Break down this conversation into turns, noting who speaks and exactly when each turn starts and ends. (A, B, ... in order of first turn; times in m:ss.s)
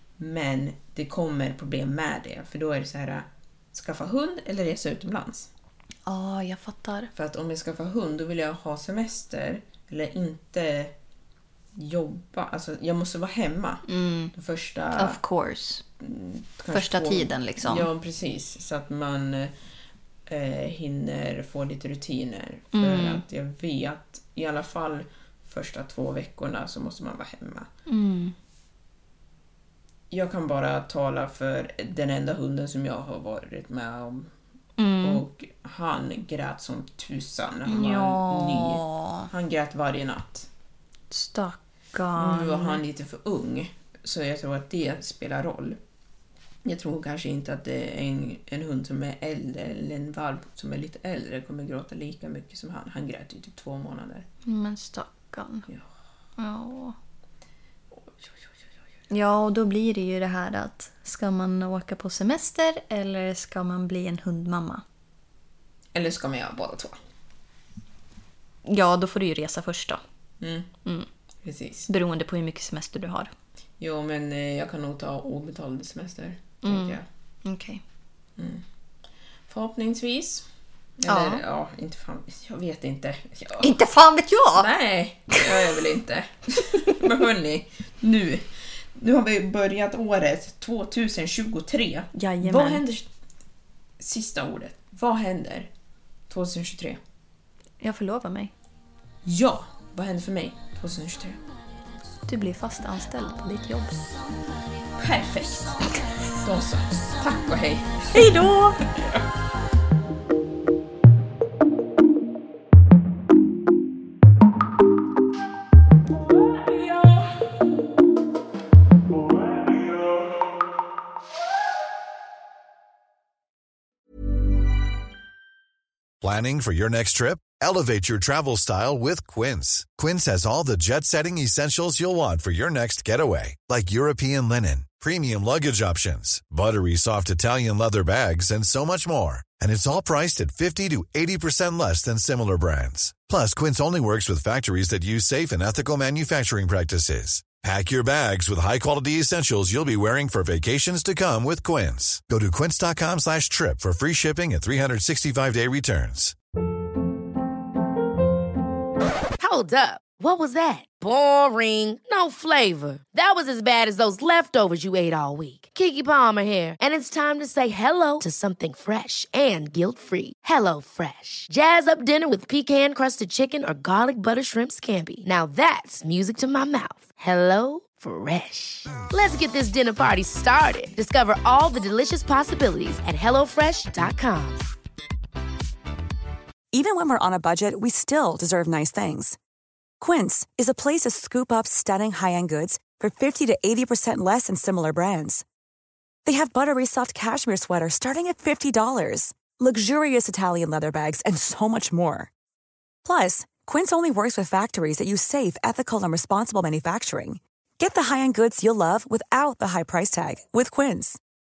0:00.2-0:05.5 A
0:06.1-0:07.1 B
0:07.1-0:10.9 A
0:11.8-0:15.2 A
0:13.9-0:14.3 B
0:15.0-0:15.8 B
0:16.0-0:19.5 A
0:16.7-0:17.9 B
0:20.3-0:27.7 A
0:22.7-0:23.2 B
0:27.9-0:28.4 B
0:30.1-0:34.3 A
0:34.8-0:35.2 B
0:35.0-0:40.5 A
0:37.7-0:39.3 B
0:41.1-0:42.8 B
0:42.2-0:45.8 A
0:46.6-0:54.3 A
0:54.4-0:55.7 B
0:56.4-0:57.0 B
0:58.0-0:58.5 A
0:59.1-1:04.8 B
1:05.9-1:07.0 A
1:08.7-1:10.0 B
1:10.4-1:10.7 A
1:11.4-1:11.9 A
1:11.9-1:13.3 B
1:13.8-1:17.1 A
1:16.6-1:17.8 B
1:18.4-1:18.6 A
1:19.5-1:20.5 A
1:21.0-1:23.8 A
1:21.1-1:21.4 B
1:23.6-1:24.7 B
1:24.5-1:33.1 A
1:25.3-1:25.8 B
1:26.8-1:27.1 B
1:32.2-1:32.8 B
1:34.0-1:35.7 A
1:36.3-1:37.0 A
1:37.8-1:38.5 B
1:39.2-1:41.4 A
1:42.3-1:44.1 B
1:45.0-1:49.2 A
1:48.1-1:48.8 B
2:06.2-2:36.4 C
2:39.4-3:04.6 D
3:06.7-3:09.4 E
3:10.0-3:15.4 E
3:16.3-3:22.3 E
3:23.0-3:31.2 E